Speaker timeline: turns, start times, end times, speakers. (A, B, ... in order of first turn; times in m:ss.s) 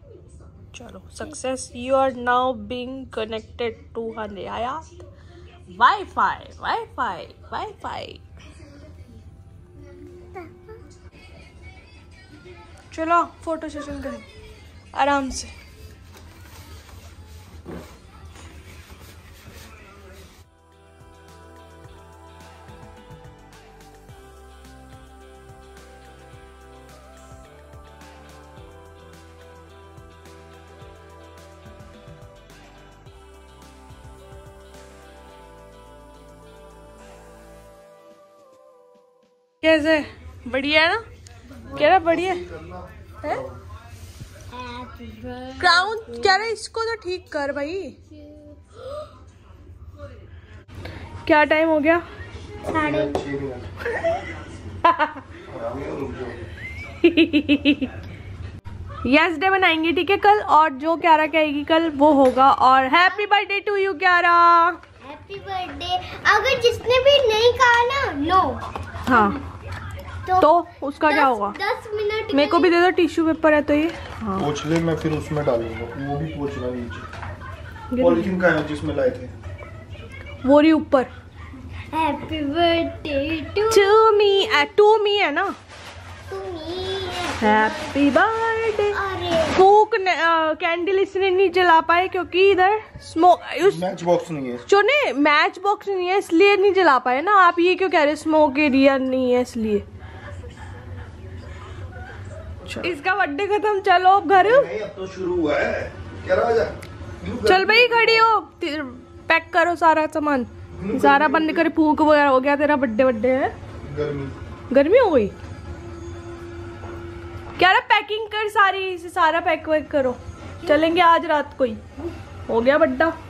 0:00.7-0:05.0 A
0:05.7-0:08.2 A
0:10.1-0:10.8 B
0:12.9-0:14.2 A
0:14.9-0:15.5 A
0:39.6-0:41.0 A
0:41.6-0:43.6 C
0:41.7-0:42.4 A
0:44.5-0:46.4 B
0:45.6-0:48.0 A
0:48.1-0:48.7 B
0:51.3-0:52.0 A
0:52.7-0:53.7 C
0:52.7-0:53.2 B
0:54.9-0:55.2 A
0:55.5-0:56.4 C
0:57.0-0:57.9 A
0:59.0-1:04.8 A
1:05.0-1:09.4 B
1:09.1-1:09.4 A
1:10.2-1:10.5 B
1:10.4-1:11.6 A
1:11.0-1:12.8 B
1:12.3-1:14.5 A
1:14.4-1:17.1 C
1:17.9-1:18.4 A
1:18.0-1:19.3 C
1:20.4-1:21.1 A
1:21.9-1:24.0 B
1:23.7-1:25.6 A
1:26.3-1:28.0 B
1:27.4-1:29.0 A
1:28.9-1:29.6 B
1:29.5-1:33.8 A
1:33.6-1:34.6 C
1:34.7-1:39.9 A
1:42.6-1:42.9 C
1:42.7-1:44.7 A
1:44.4-1:48.3 C
1:47.4-1:53.5 A
1:50.7-1:51.7 C
1:53.8-1:54.4 C
1:54.7-1:55.4 A
1:57.6-2:01.8 A
2:02.5-2:03.2 A